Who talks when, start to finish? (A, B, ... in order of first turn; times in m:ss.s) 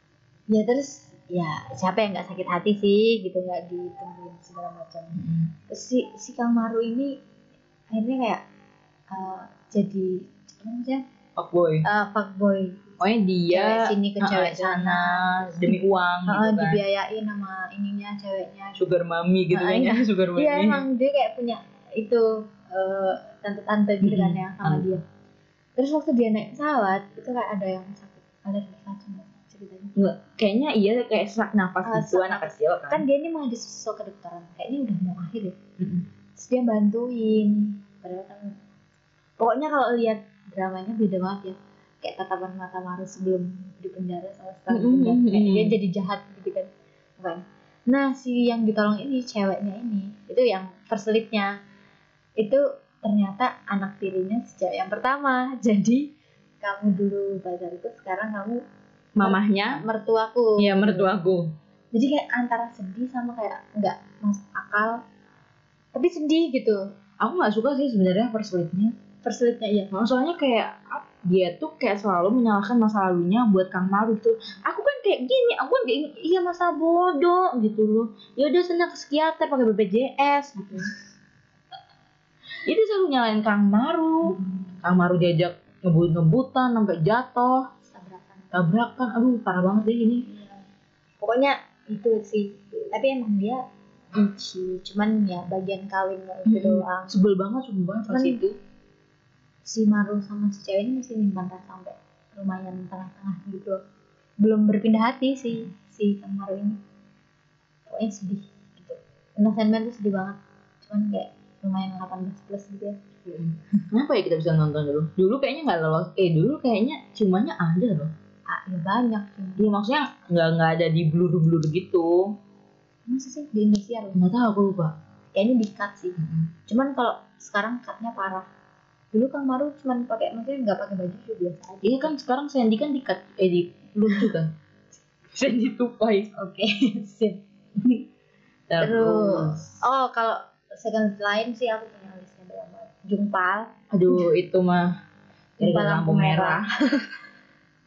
0:00.5-0:07.2 A
0:05.1-0:05.5 B
0:07.9-0:08.4 A
0:09.1-0:11.0 A
0:11.4-0:11.8 B
0:11.8-0:13.0 A
0:13.0-0:16.8 B
0:13.5-0:18.8 A
0:18.8-0:20.8 B
0:19.5-0:25.0 A
0:24.0-0:24.9 B
0:25.8-0:30.0 A
0:30.0-0:33.0 B
0:31.8-0:35.6 A
0:35.8-0:36.0 B
0:36.4-0:38.6 A
0:39.4-0:51.5 A
0:44.7-0:45.8 B
0:52.4-0:56.1 A
0:56.6-0:58.6 A
0:59.2-0:59.8 B
0:59.2-1:01.1 A
1:00.6-1:01.5 B
1:01.9-1:05.0 A
1:05.9-1:06.9 A
1:07.2-1:08.9 B
1:09.2-1:09.9 A
1:09.9-1:20.9 B
1:22.6-1:27.7 B
1:24.3-1:24.8 A
1:27.8-1:28.7 A
1:28.5-1:30.3 B
1:30.2-1:30.6 A
1:31.2-1:37.1 A
1:36.4-1:38.6 B
1:38.1-1:38.4 A
1:39.6-1:43.8 A
1:44.4-1:46.8 A
1:47.9-1:53.0 A
1:53.2-1:58.1 B
1:58.5-1:59.7 A
1:59.6-2:02.3 B
2:03.1-2:04.2 A
2:04.1-2:04.9 B
2:05.3-2:08.5 A
2:06.2-2:06.5 B
2:09.1-2:12.1 A
2:11.8-2:14.5 B
2:15.3-2:16.3 B
2:16.4-2:17.4 A
2:18.7-2:19.8 B
2:18.8-2:24.3 A
2:23.9-2:24.9 B
2:25.6-2:27.0 A
2:25.6-2:26.7 B